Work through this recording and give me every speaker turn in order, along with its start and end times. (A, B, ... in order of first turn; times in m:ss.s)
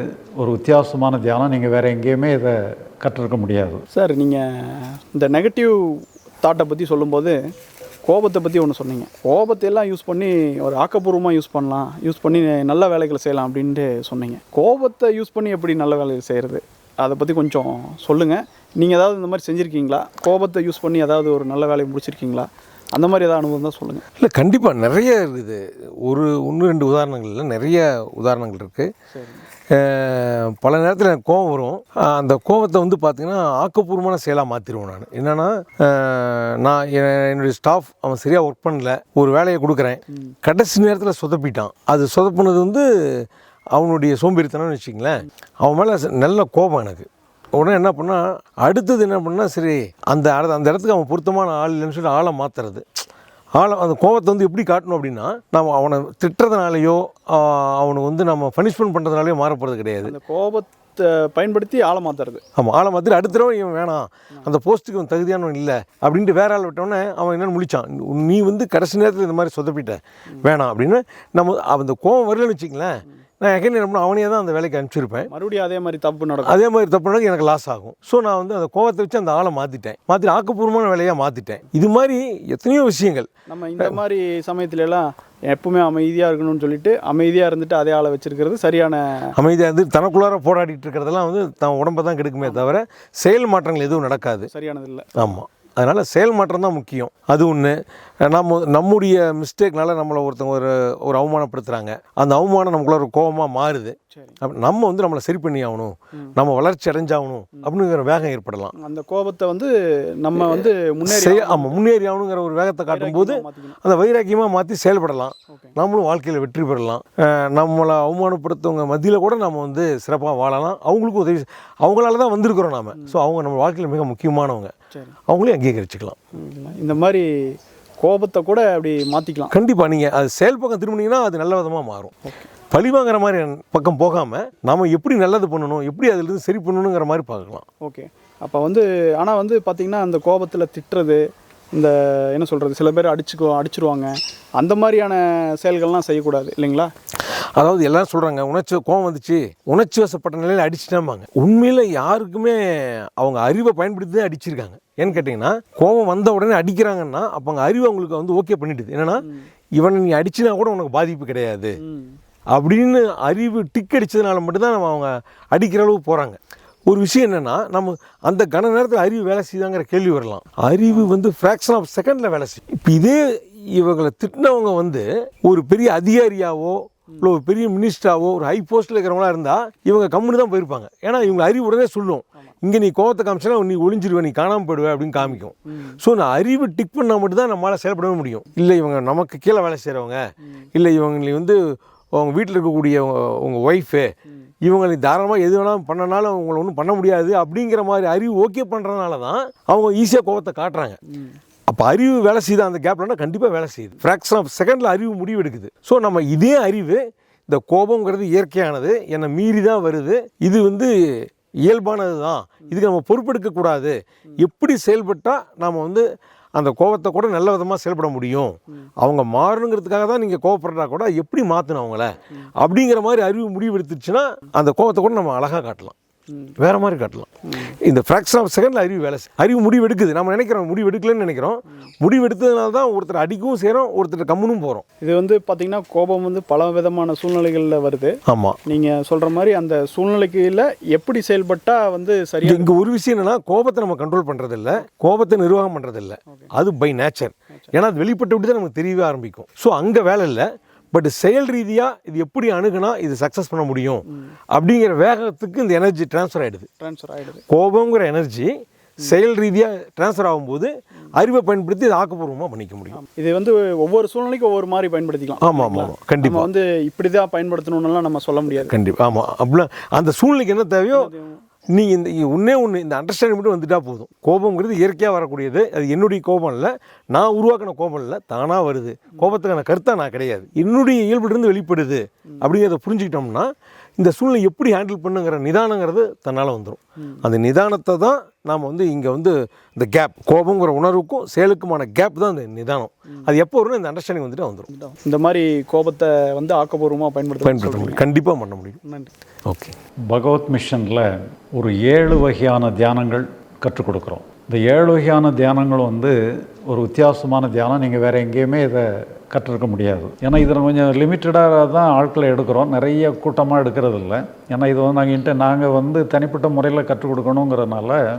0:00.4-0:03.8 A
0:03.9-0:07.4 B
0:08.0-0:24.0 B
0:24.2-0:28.9 C
0:29.1-0:29.4 B
0:29.7-0:53.0 C
0:53.6-1:00.1 C
1:00.0-1:02.4 B
1:02.6-1:15.3 C
1:15.3-1:16.6 B
1:16.4-1:24.0 C
1:23.5-1:29.3 B
1:29.3-1:34.5 C
1:32.4-1:32.7 B
1:34.5-1:35.3 B
1:35.2-1:48.7 C
1:44.1-1:44.4 B
1:48.8-1:51.8 B
1:50.4-2:04.7 C
1:52.9-1:53.8 B
2:05.3-2:06.2 C
2:06.3-2:09.5 B
2:09.5-2:12.2 C
2:12.7-2:17.6 C
2:17.8-2:21.2 B
2:21.7-2:26.9 B
2:27.3-2:39.2 C
2:39.2-2:39.5 B
2:39.8-2:41.8 C
2:41.8-2:42.2 B
2:42.5-2:53.2 C
2:53.7-3:10.2 C
3:05.2-3:06.0 B
3:10.7-3:11.6 C
3:12.2-3:14.1 C
3:14.6-3:21.0 C
3:21.7-3:36.0 C
3:36.6-3:45.9 C
3:46.6-3:54.8 C
3:47.5-3:47.8 B
3:55.0-3:58.1 B
3:58.3-3:58.6 C
3:58.6-4:02.7 B
4:02.4-4:16.7 C
4:16.8-4:17.4 B
4:17.5-4:23.0 C
4:22.9-4:28.7 B
4:25.4-4:26.5 C
4:28.5-4:31.1 C
4:30.9-4:31.4 B
4:31.7-4:54.7 C
4:54.7-4:58.0 B
4:57.4-4:58.8 C
4:58.8-4:59.1 B
4:59.5-4:59.7 C
5:00.1-5:06.1 A
5:06.6-5:18.0 A